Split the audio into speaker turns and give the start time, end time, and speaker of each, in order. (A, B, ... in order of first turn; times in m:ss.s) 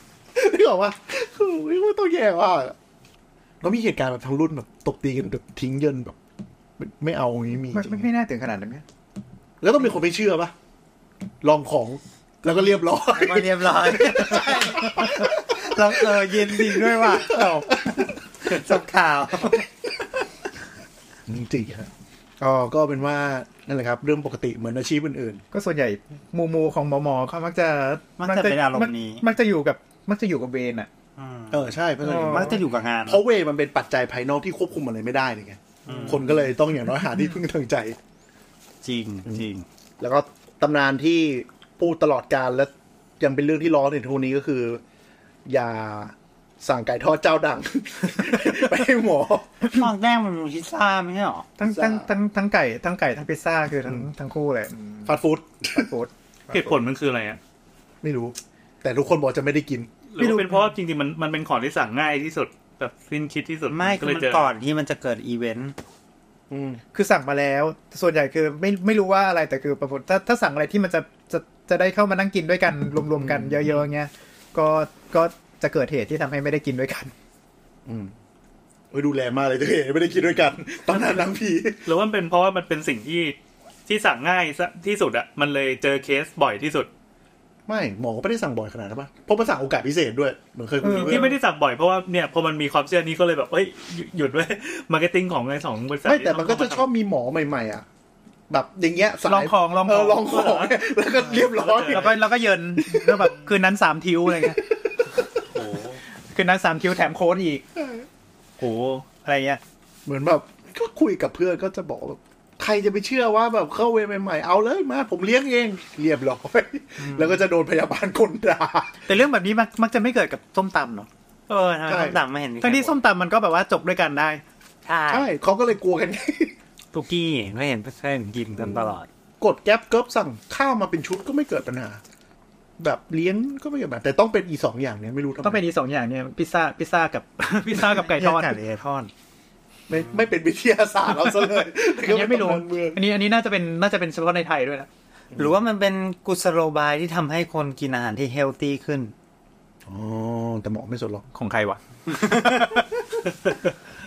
0:00.4-0:02.8 A
0:03.6-0:06.2 A
0:06.8-0:08.1 A
0:07.7-0:08.8 B
0:09.6-0:10.5 A
0:11.4-0:18.0 A
0:12.5-0:19.7 C
0:17.0-0:17.6 B
0:21.3-0:21.9 A
0:22.4-0:25.4 A
0:25.5-0:30.9 B
0:28.2-0:29.2 C
0:31.2-0:33.2 C
0:31.5-0:38.0 A
0:32.0-0:32.6 B
0:35.9-0:36.2 C
0:35.9-0:36.2 B
0:38.8-0:39.7 C
0:40.0-0:44.8 A
0:45.5-0:49.7 A
0:49.6-0:51.5 C
0:51.6-0:55.2 B
0:51.7-0:52.1 A
0:55.0-0:55.9 A
0:55.8-0:56.1 B
0:56.5-0:57.4 D
0:58.0-0:59.9 A
1:00.1-1:04.5 D
1:00.2-1:00.7 B
1:03.7-1:05.8 C
1:06.5-1:06.8 A
1:06.9-1:17.1 B
1:13.2-1:13.8 A
1:17.9-1:18.1 A
1:18.9-1:21.9 A
1:20.9-1:21.2 D
1:21.8-1:23.4 D
1:23.9-1:26.9 D
1:27.7-1:31.4 A
1:30.8-1:31.3 B
1:30.9-1:36.9 D
1:36.0-1:37.8 A
1:38.5-1:43.4 A
1:39.2-1:40.2 B
1:40.3-1:40.8 D
1:41.3-1:42.1 D
1:41.9-1:44.6 B
1:44.3-1:45.3 A
1:45.5-1:46.0 D
1:46.3-1:47.6 B
1:48.6-1:49.0 D
1:49.2-1:49.6 B
1:50.1-1:59.0 A
1:57.0-1:57.4 B
1:59.1-2:01.1 B
2:01.5-2:03.0 C
2:01.9-2:02.2 A
2:02.6-2:04.4 B
2:04.9-2:05.3 C
2:05.1-2:06.5 A
2:06.9-2:09.1 C
2:09.4-2:12.0 A
2:12.8-2:15.6 A
2:15.4-2:18.6 B
2:17.7-2:19.1 C
2:19.9-2:23.0 A
2:22.0-2:24.9 B
2:25.4-2:29.1 C
2:29.9-2:31.2 A
2:31.3-2:32.8 B